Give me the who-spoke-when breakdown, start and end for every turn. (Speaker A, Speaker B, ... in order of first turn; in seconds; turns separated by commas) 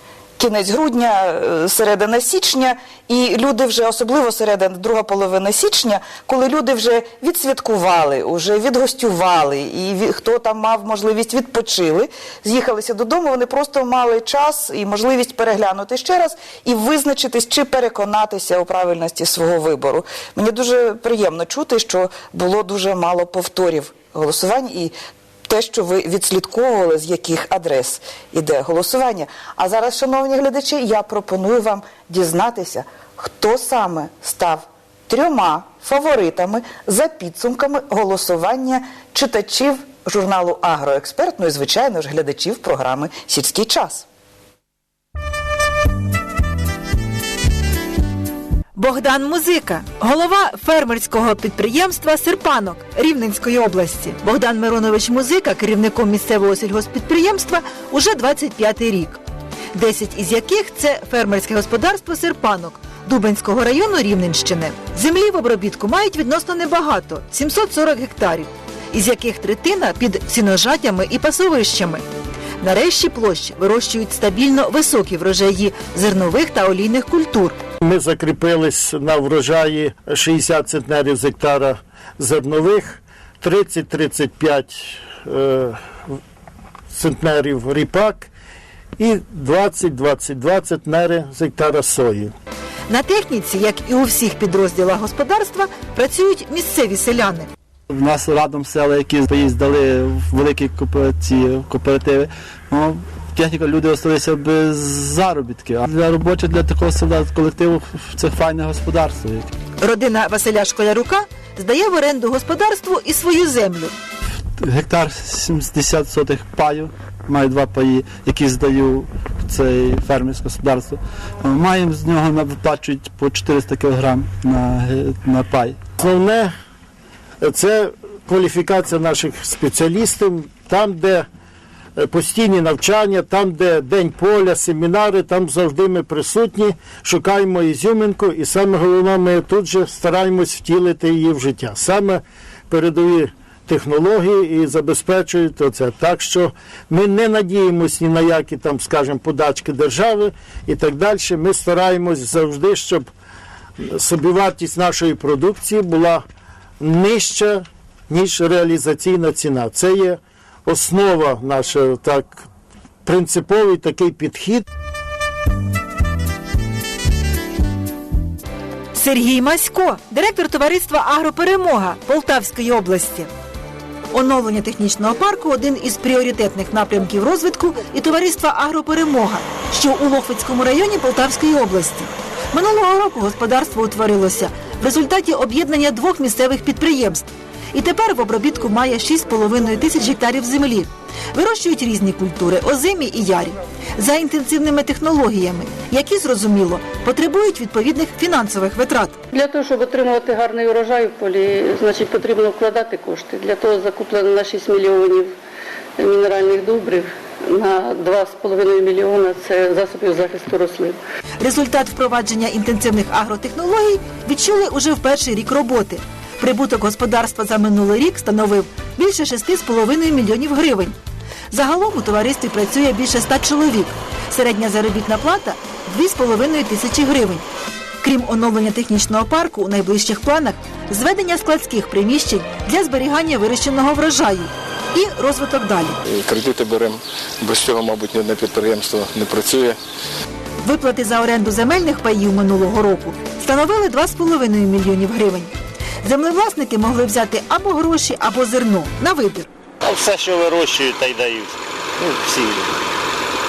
Speaker A: 0.4-24.9, Speaker A: 25.5-44.1, Speaker B: 48.8-59.2, Speaker B: 59.7-72.0, Speaker B: 72.6-77.6, Speaker C: 77.8-86.2, Speaker C: 86.9-88.3, Speaker C: 89.0-92.3, Speaker B: 92.9-97.5, Speaker D: 97.9-109.5, Speaker B: 109.8-114.0, Speaker D: 114.6-125.8, Speaker C: 126.0-126.5, Speaker C: 127.4-131.3, Speaker C: 132.0-153.1, Speaker C: 153.8-156.2, Speaker C: 156.8-162.4, Speaker C: 163.1-164.7, Speaker B: 168.9-173.3, Speaker B: 174.1-199.2, Speaker E: 199.3-205.3, Speaker E: 206.0-211.0, Speaker B: 211.4-221.0, Speaker B: 221.5-227.4, Speaker B: 228.0-236.0, Speaker F: 236.0-239.8, Speaker B: 240.6-245.5, Speaker B: 246.0-249.5, Speaker G: 249.8-252.8